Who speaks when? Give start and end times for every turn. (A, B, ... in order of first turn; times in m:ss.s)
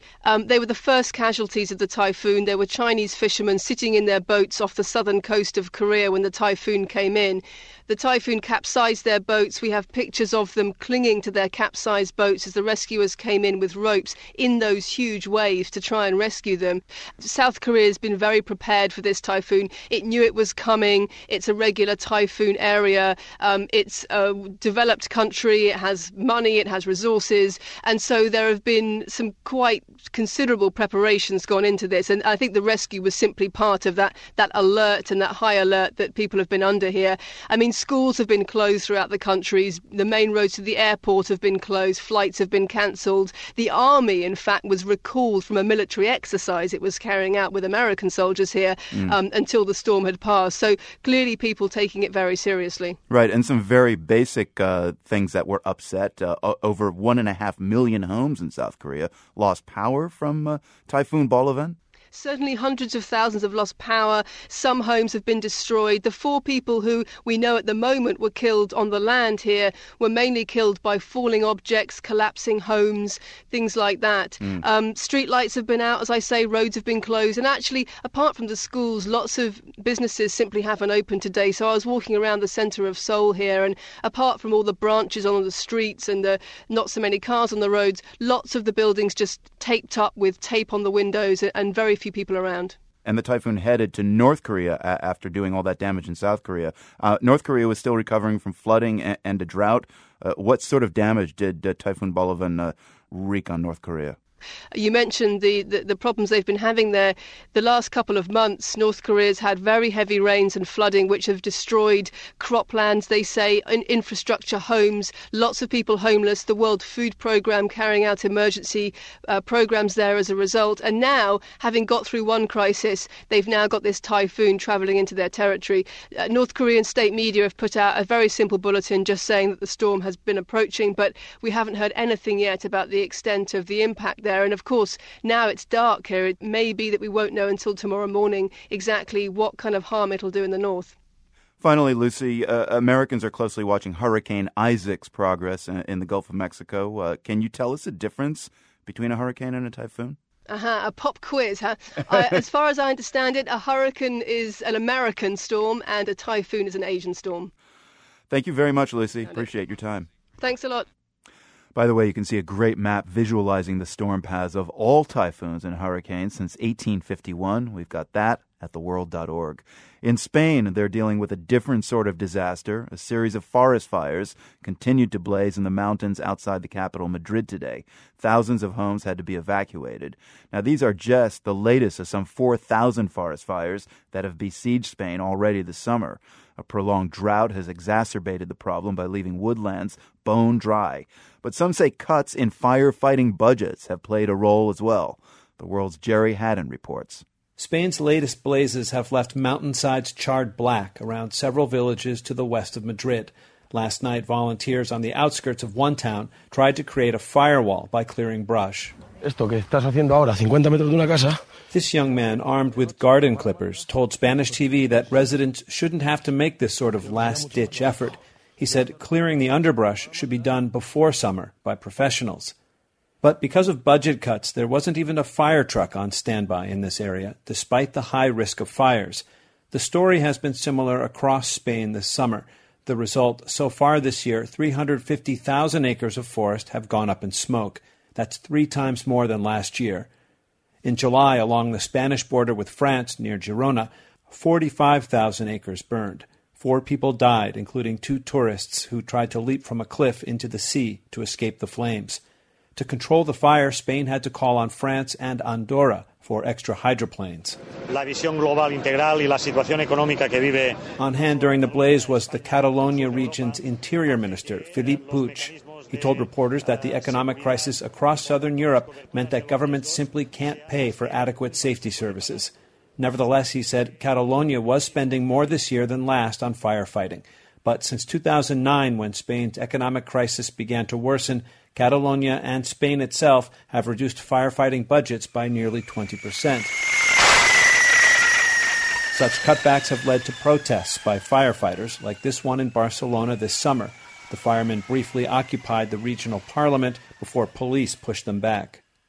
0:00.2-0:53.0 A
0:48.9-0:49.2 B
0:53.1-1:01.8 B
1:02.1-1:32.8 A
1:33.0-1:44.2 B
1:44.7-2:20.9 A
2:21.6-2:30.2 B
2:30.5-2:37.5 A
2:32.1-2:32.4 B
2:38.3-2:40.1 B
2:40.4-2:40.8 A
2:41.7-3:17.2 B
3:17.6-3:28.9 C
3:29.2-3:31.4 D
3:31.7-3:42.5 C
3:43.2-4:00.1 C
4:00.8-4:12.2 C
4:12.8-4:17.6 C
4:17.9-4:20.8 E
4:21.0-4:46.7 C
4:25.4-4:26.0 E
4:49.1-4:58.8 C